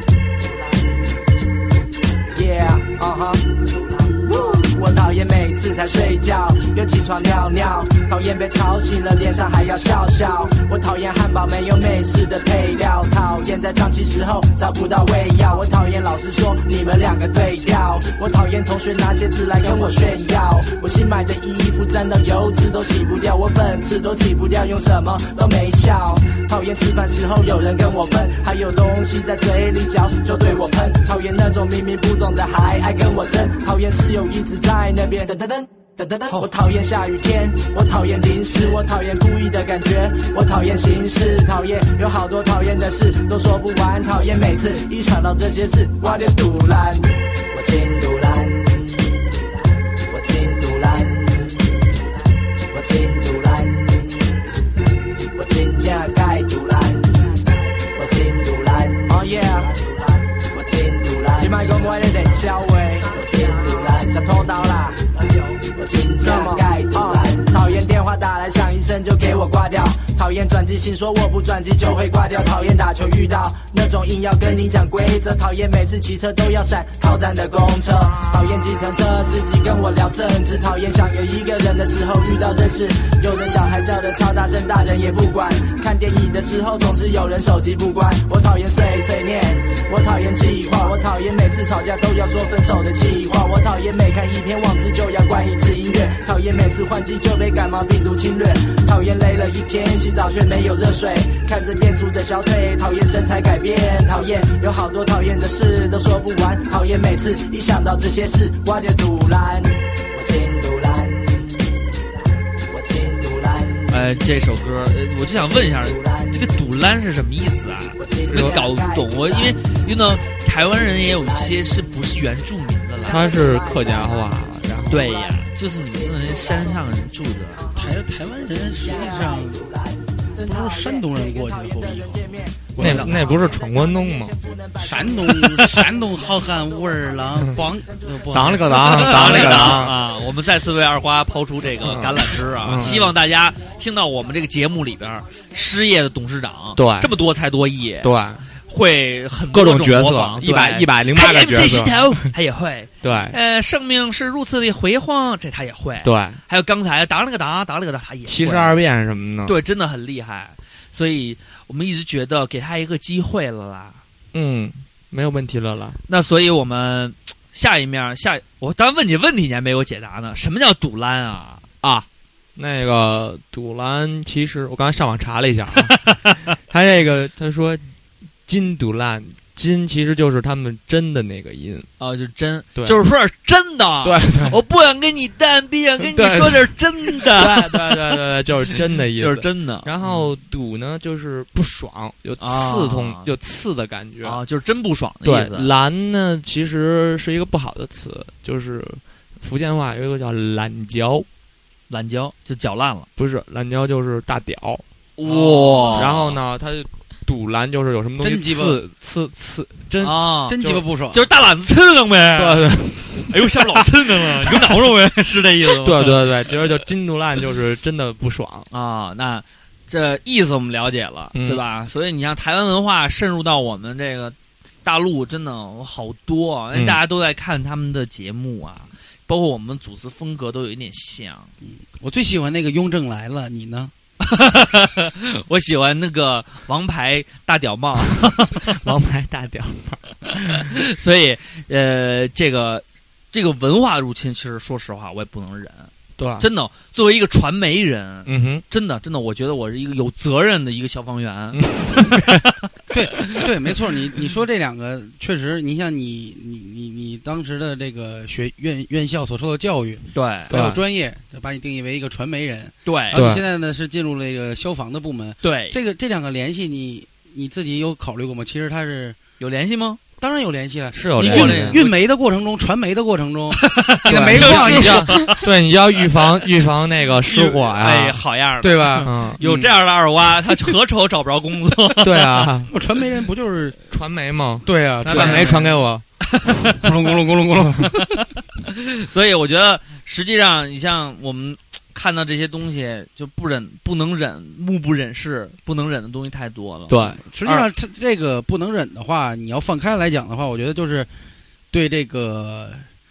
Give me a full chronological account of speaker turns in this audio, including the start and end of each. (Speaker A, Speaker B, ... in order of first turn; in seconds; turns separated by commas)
Speaker A: 2.3-49.1, Speaker A: 50.1-51.5, Speaker A: 52.7-54.2, Speaker A: 55.4-57.1, Speaker A: 57.9-111.5, Speaker A: 112.8-113.8, Speaker B: 113.9-123.3, Speaker C: 118.3-118.6, Speaker C: 123.0-125.2, Speaker A: 123.2-124.2, Speaker B: 124.9-127.6, Speaker D: 127.7-129.7, Speaker A: 128.8-129.7, Speaker A: 130.3-135.5, Speaker D: 130.4-133.3, Speaker C: 132.8-134.4, Speaker D: 134.8-139.9, Speaker C: 138.3-140.0, Speaker B: 138.7-148.1, Speaker C: 141.8-143.1, Speaker C: 146.7-147.1, Speaker C: 148.0-148.5, Speaker B: 148.7-158.8, Speaker C: 149.5-152.3, Speaker C: 153.0-153.4, Speaker C: 156.0-156.4, Speaker C: 158.2-159.6, Speaker B: 159.4-164.0, Speaker C: 164.3-166.0, Speaker B: 166.1-171.6, Speaker C: 171.8-175.9, Speaker C: 176.7-177.9, Speaker C: 178.4-181.9, Speaker B: 182.0-188.0, Speaker C: 184.0-184.6, Speaker C: 186.0-194.4, Speaker B: 189.2-190.3, Speaker B: 192.4-193.3, Speaker B: 194.2-195.7, Speaker C: 195.2-201.3, Speaker B: 201.9-203.1, Speaker C: 203.2-210.8, Speaker B: 205.2-206.4, Speaker D: 208.2-208.8, Speaker B: 210.0-210.6, Speaker D: 210.5-211.3, Speaker B: 211.1-216.3, Speaker C: 212.3-213.7, Speaker C: 215.8-218.7, Speaker B: 218.7-231.5, Speaker C: 221.3-221.6, Speaker C: 226.7-227.0, Speaker D: 231.6-233.9, Speaker B: 234.2-238.8, Speaker C: 238.7-240.7, Speaker B: 240.9-251.6, Speaker C: 246.2-246.5, Speaker C: 248.2-248.6, Speaker C: 251.5-252.4, Speaker D: 252.9-269.2, Speaker B: 260.1-260.5, Speaker C: 260.5-260.8, Speaker B: 262.8-263.2, Speaker C: 263.1-263.4, Speaker B: 265.4-265.8, Speaker B: 269.4-270.0, Speaker D: 270.2-275.1, Speaker C: 270.9-271.8, Speaker B: 271.2-272.0, Speaker B: 273.5-275.4, Speaker C: 274.1-278.2, Speaker B: 277.3-282.4, Speaker D: 278.6-279.1, Speaker C: 279.0-279.7, Speaker C: 282.0-282.7, Speaker D: 282.7-283.8, Speaker C: 283.9-286.0, Speaker D: 284.6-285.7, Speaker B: 285.0-286.7, Speaker D: 286.7-288.0, Speaker B: 287.9-288.2, Speaker B: 289.0-297.6, Speaker C: 296.9-297.2, Speaker D: 297.2-301.1, Speaker D: 301.7-302.9